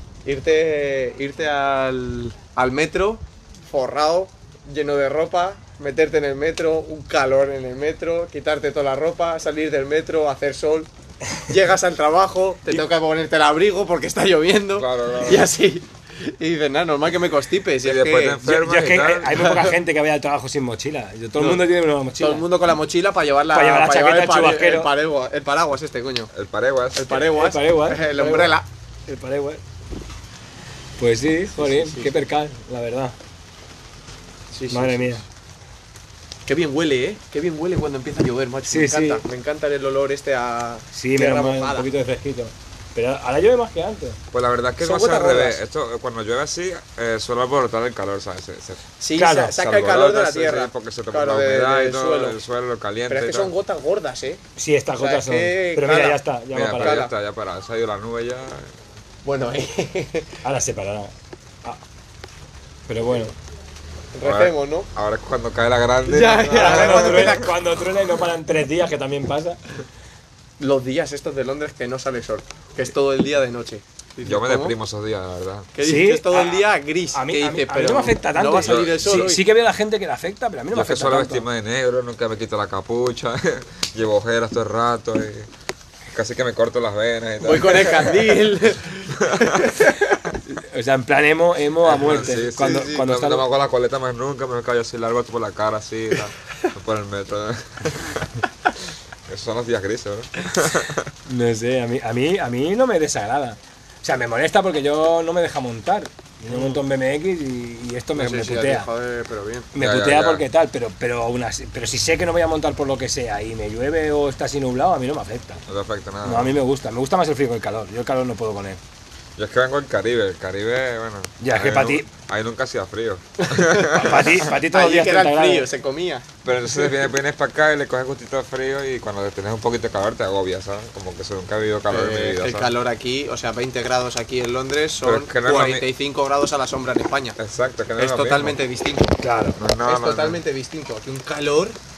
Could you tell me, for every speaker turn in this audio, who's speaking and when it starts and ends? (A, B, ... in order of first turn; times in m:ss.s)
0:00.2-0:10.9 A
0:11.5-0:18.4 A
0:14.7-0:15.5 B
0:17.8-0:19.4 B
0:18.4-0:22.5 C
0:19.4-0:19.7 A
0:21.4-0:21.6 A
0:22.2-0:26.3 A
0:23.5-0:24.9 C
0:26.3-0:27.2 B
0:26.9-0:28.7 A
0:27.1-0:28.5 C
0:29.1-0:29.6 C
0:31.0-0:33.2 C
0:31.5-0:32.2 A
0:34.5-0:35.2 A
0:34.7-0:35.2 C
0:36.4-0:41.9 A
0:38.7-0:39.2 C
0:40.9-0:44.2 C
0:44.3-0:48.8 B
0:44.8-0:45.6 A
0:49.0-0:52.4 A
0:49.1-0:49.6 C
0:49.6-0:53.5 B
0:53.1-0:54.4 A
0:54.6-0:57.0 C
0:55.0-0:56.2 A
0:56.5-0:58.7 B
0:56.8-0:57.1 A
0:59.2-1:00.4 A
1:00.4-1:01.1 C
1:02.9-1:03.3 C
1:04.1-1:04.9 A
1:04.2-1:07.5 B
1:06.0-1:07.5 A
1:06.5-1:09.6 C
1:10.6-1:14.7 A
1:14.2-1:15.7 B
1:15.7-1:19.4 A
1:15.8-1:21.4 C
1:18.6-1:19.3 B
1:20.7-1:25.5 B
1:26.1-1:28.4 B
1:27.4-1:30.0 A
1:29.2-1:29.7 B
1:30.5-1:33.4 C
1:31.8-1:38.4 B
1:32.6-1:33.0 A
1:39.3-1:41.1 B
1:41.3-1:48.9 C
1:48.1-1:49.7 A
1:49.7-1:55.6 C
1:49.8-1:50.4 B
1:55.7-1:56.5 B
1:56.2-1:58.8 C
1:59.4-2:04.4 B
2:01.4-2:02.1 C
2:03.4-2:06.3 A
2:03.9-2:05.7 C
2:06.4-2:12.7 B
2:11.9-2:17.4 A
2:15.0-2:15.8 B
2:17.4-2:18.6 B
2:18.0-2:19.1 A
2:19.2-2:19.6 C
2:19.6-2:20.4 B
2:19.8-2:21.8 A